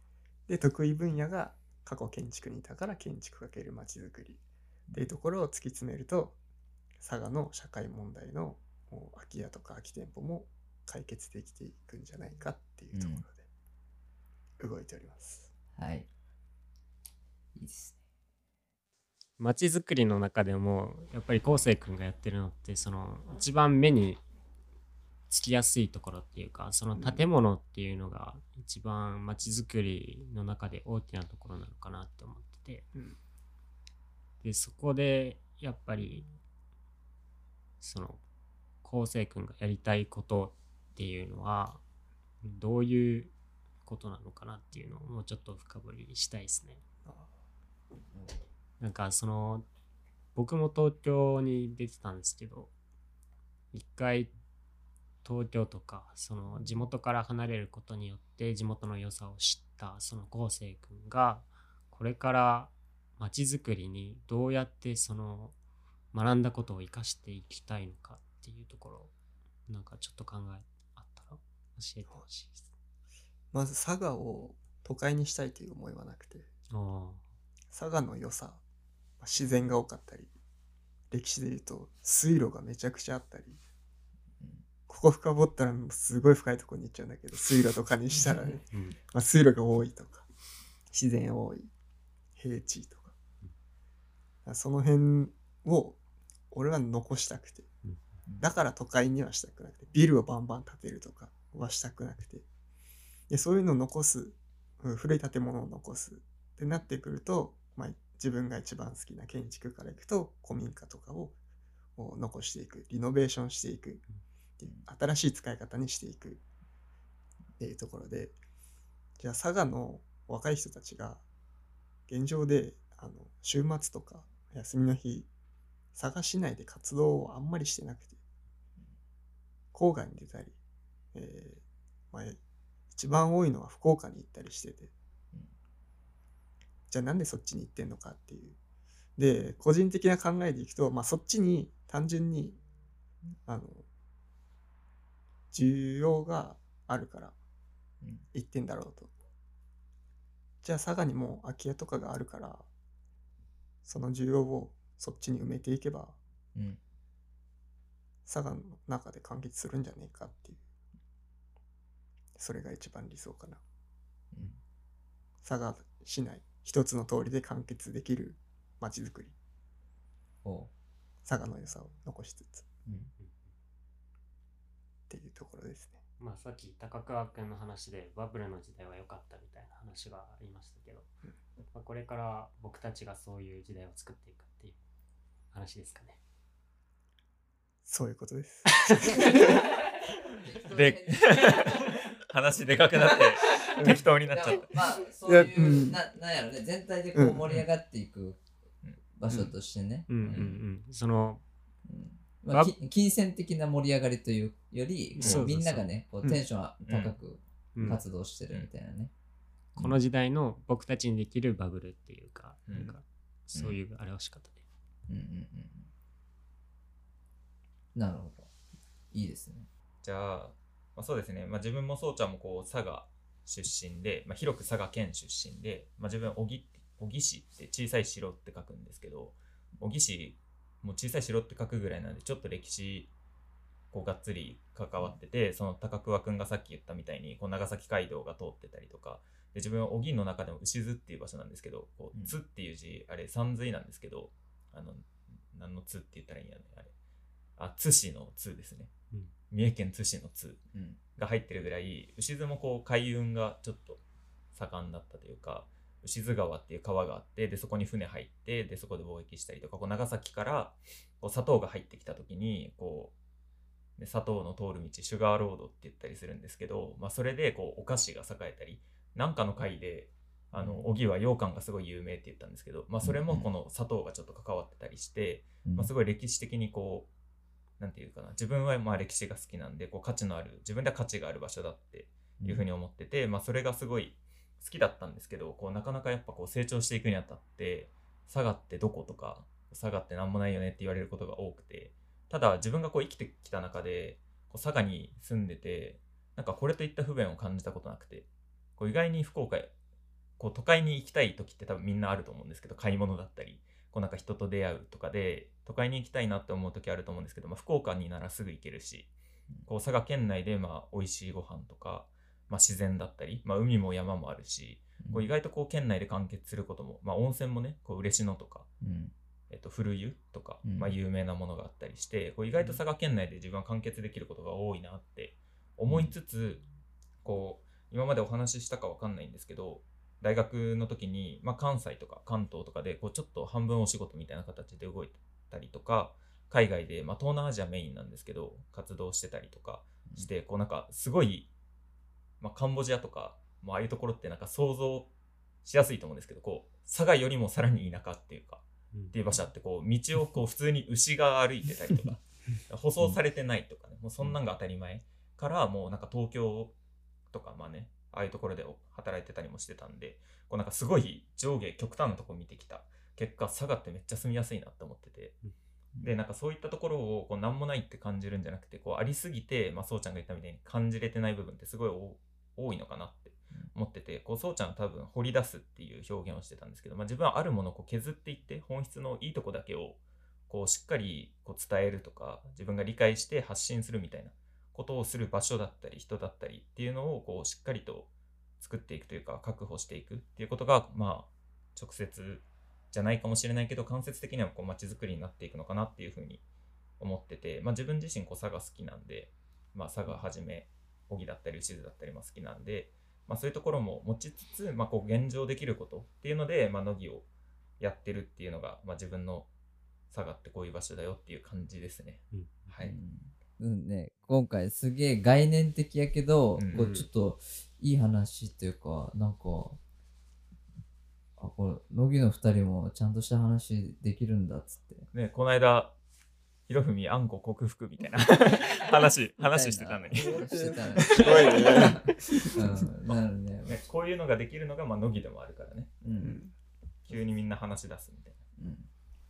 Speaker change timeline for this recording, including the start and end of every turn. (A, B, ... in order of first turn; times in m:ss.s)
0:00.5-0:04.4 A
0:04.9-0:06.4 A
0:07.0-0:13.4 A
0:12.9-0:13.2 B
0:14.6-0:15.5 A
0:15.7-0:16.1 B
0:17.6-0:18.0 B
0:19.4-0:24.2 C
0:25.3-0:32.9 C
0:27.0-0:27.2 A
0:34.4-0:36.3 C
0:37.8-0:38.2 C
0:38.8-0:41.8 C
0:42.4-0:43.3 C
0:43.8-0:46.8 C
0:48.8-0:49.6 C
0:50.3-0:52.7 C
0:53.7-0:54.3 C
0:55.2-1:05.5 C
1:06.1-1:09.1 C
1:09.7-1:12.6 C
1:13.5-1:16.5 A
1:16.7-1:17.2 C
1:17.7-1:18.6 A
1:19.2-1:20.3 A
1:21.1-1:23.6 A
1:24.9-1:30.2 A
1:28.7-1:29.0 C
1:30.9-1:31.7 A
1:32.4-1:33.1 A
1:34.4-1:36.0 A
1:36.5-1:37.7 A
1:38.4-1:42.4 A
1:43.3-1:51.4 A
1:52.0-1:54.0 A
1:54.6-1:56.4 A
1:57.6-1:58.4 A
1:59.2-2:01.2 A
2:02.1-2:05.3 A
2:05.9-2:08.2 A
2:09.7-2:10.6 A
2:11.1-2:12.4 A
2:12.9-2:14.9 A
2:16.9-2:18.6 A
2:19.2-2:22.6 A
2:23.4-2:23.8 A
2:25.5-2:27.3 A
2:28.3-2:29.1 A
2:30.6-2:32.6 A
2:33.8-2:36.2 A
2:38.2-2:40.6 A
2:42.4-2:43.6 A
2:45.4-2:49.3 A
2:50.4-2:50.7 B
2:51.2-2:52.7 A
2:55.1-2:56.0 A
2:56.2-3:01.1 C
3:01.7-3:04.8 C
3:05.5-3:06.2 C
3:07.8-3:09.6 A
3:09.1-3:09.6 B
3:10.3-3:12.0 B
3:10.7-3:14.8 D
3:12.5-3:18.4 B
3:13.8-3:14.0 A
3:15.2-3:16.0 A
3:17.1-3:17.5 A
3:19.1-3:20.6 B
3:20.1-3:21.4 C
3:21.8-3:29.1 B
3:25.2-3:25.9 C
3:25.2-3:25.5 D
3:26.8-3:27.2 D
3:27.7-3:28.0 C
3:29.8-3:34.6 C
3:35.1-3:35.9 B
3:37.9-3:38.5 B
3:39.1-3:39.7 B
3:40.0-3:53.1 D
3:53.9-4:06.9 D
4:07.6-4:08.9 D
4:09.5-4:14.0 D
4:10.7-4:11.0 B
4:14.5-4:23.2 D
4:24.0-4:37.1 D
4:30.6-4:30.9 B
4:33.0-4:33.5 B
4:35.6-4:35.9 B
4:37.8-4:59.7 D
4:42.4-4:42.6 B
5:00.4-5:09.1 D
5:09.6-5:18.7 D
5:15.0-5:15.3 B
5:18.8-5:19.1 B
5:19.5-5:26.6 D
5:20.6-5:20.9 B
5:25.9-5:26.1 B
5:27.2-5:41.5 D
5:42.4-5:45.1 D
5:45.6-5:56.8 D
5:57.3-6:05.4 D
6:06.0-6:36.4 D
6:37.0-6:47.3 D
6:47.8-6:49.5 D
6:50.1-6:53.0 D
6:52.3-6:52.8 C
6:52.8-6:59.8 B
6:56.5-6:56.9 D
6:56.7-6:57.1 C
7:01.4-7:05.1 B
7:05.1-7:06.0 D
7:06.7-7:10.4 D
7:09.4-7:13.8 B
7:10.3-7:12.8 A
7:11.0-7:12.0 D
7:13.6-7:16.0 D
7:16.0-7:16.4 B
7:16.2-7:16.5 A
7:17.1-7:18.4 D
7:18.6-7:18.9 B